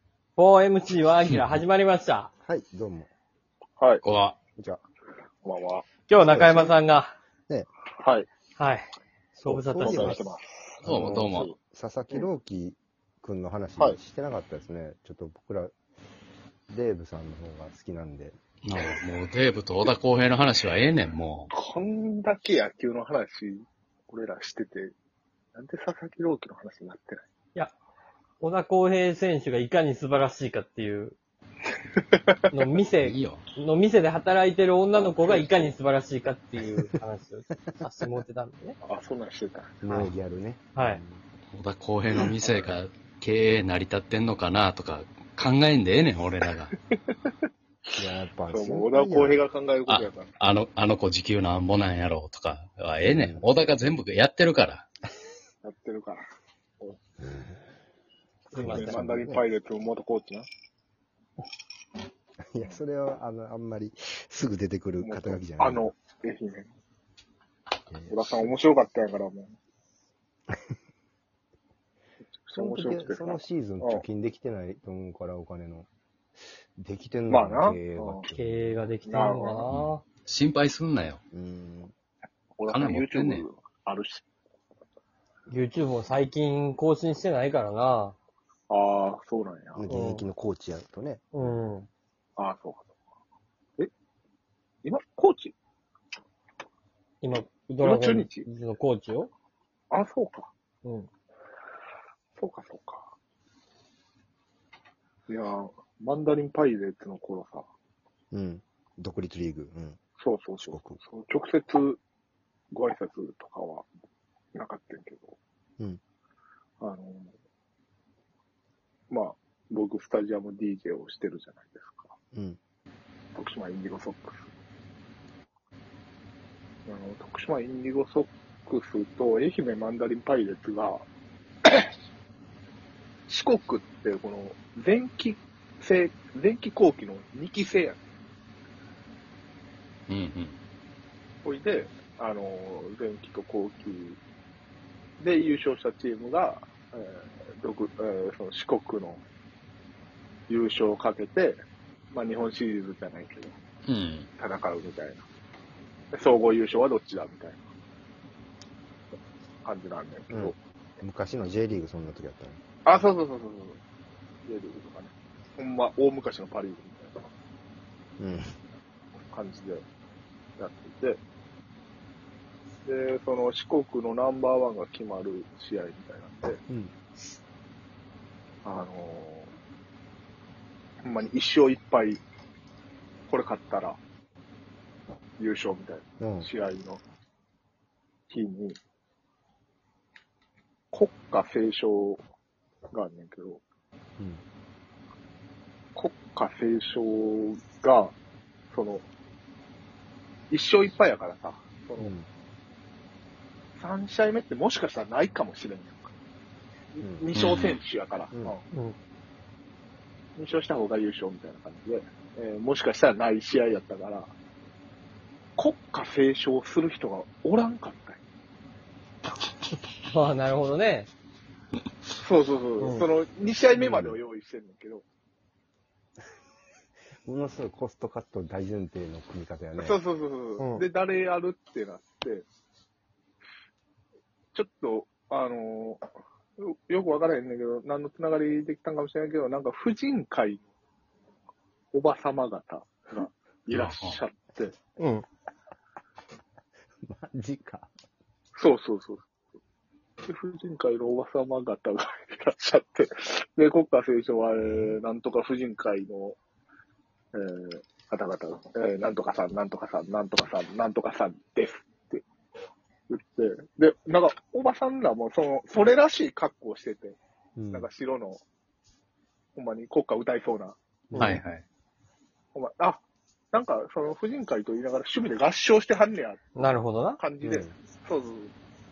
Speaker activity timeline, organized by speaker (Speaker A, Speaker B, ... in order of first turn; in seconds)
Speaker A: 0.4-2.3, 6.1-7.1, 8.6-8.8, 9.4-10.2, 28.4-31.1, 32.5-38.8, 40.8-41.0, 58.5-59.0, 78.3-80.0, 85.5-88.2, 89.9-90.3, 91.3-91.9, 97.2-99.3, 100.8-101.1, 220.0-221.1, 222.8-223.1, 230.6-230.8, 271.1-271.4, 276.6-277.2
Speaker B: 1.3-1.6, 4.0-4.4, 10.8-11.5, 18.6-21.5, 33.0-33.5, 41.5-46.7, 49.9-54.9, 79.7-81.2, 82.7-83.5, 140.1-140.6, 153.9-154.3, 207.3-207.8, 243.7-244.2, 271.2-271.6
Speaker C: 2.4-3.1, 6.2-6.8, 9.3-10.2, 10.9-15.7, 16.7-18.4, 39.8-41.2, 48.0-49.4, 53.0-53.5, 57.2-57.6, 58.5-59.4, 62.5-65.9, 67.9-68.5, 72.5-75.9, 76.8-78.8, 81.3-81.9, 89.8-91.6, 108.3-110.0, 110.6-111.0, 122.3-122.6, 160.3-162.6, 168.2-168.6, 176.7-176.9, 186.2-186.5, 194.2-194.4, 202.0-202.3, 207.0-207.2, 223.7-224.2, 227.2-230.0, 247.0-247.9, 254.6-254.9, 267.6-267.9, 271.1-271.4, 277.4-277.8
Speaker D: 5.4-5.9, 8.0-8.3, 9.5-11.6, 21.5-24.9, 25.5-27.2, 31.9-32.7, 34.9-35.7, 38.8-39.8, 42.2-42.8, 46.9-47.2, 48.5-50.3, 55.6-56.2, 58.6-60.5, 65.0-66.7, 68.1-69.5, 72.5-74.0, 77.3-78.2, 79.1-79.7, 82.6-84.2, 88.7-89.8, 92.4-92.9, 94.8-95.5, 97.8-98.5, 99.9-100.5, 102.3-103.1, 105.3-107.7, 110.2-112.0, 112.7-113.9, 114.5-115.4, 116.8-117.3, 119.1-122.2, 123.3-124.5, 126.9-131.1, 131.7-131.9, 133.3-138.0, 141.4-144.2, 145.2-149.2, 150.5-151.6, 152.1-153.6, 154.4-155.2, 156.1-157.7, 159.6-160.6, 162.8-163.8, 164.4-167.3, 169.3-169.8, 170.6-171.2, 172.8-176.6, 178.6-179.5, 181.0-182.2, 183.3-184.0, 185.4-187.0, 188.3-188.8, 190.9-192.2, 192.9-193.6, 195.9-198.2, 198.7-199.1, 200.5-202.1, 203.8-206.1, 206.9-208.6, 210.4-214.3, 215.6-218.2, 222.2-225.1, 229.8-232.5, 234.5-236.1, 236.6-240.6, 241.9-244.8, 248.6-249.3, 250.2-256.4, 257.3-262.2, 263.1-267.2, 267.7-268.4, 269.6-270.8, 272.5-276.7, 277.2-278.5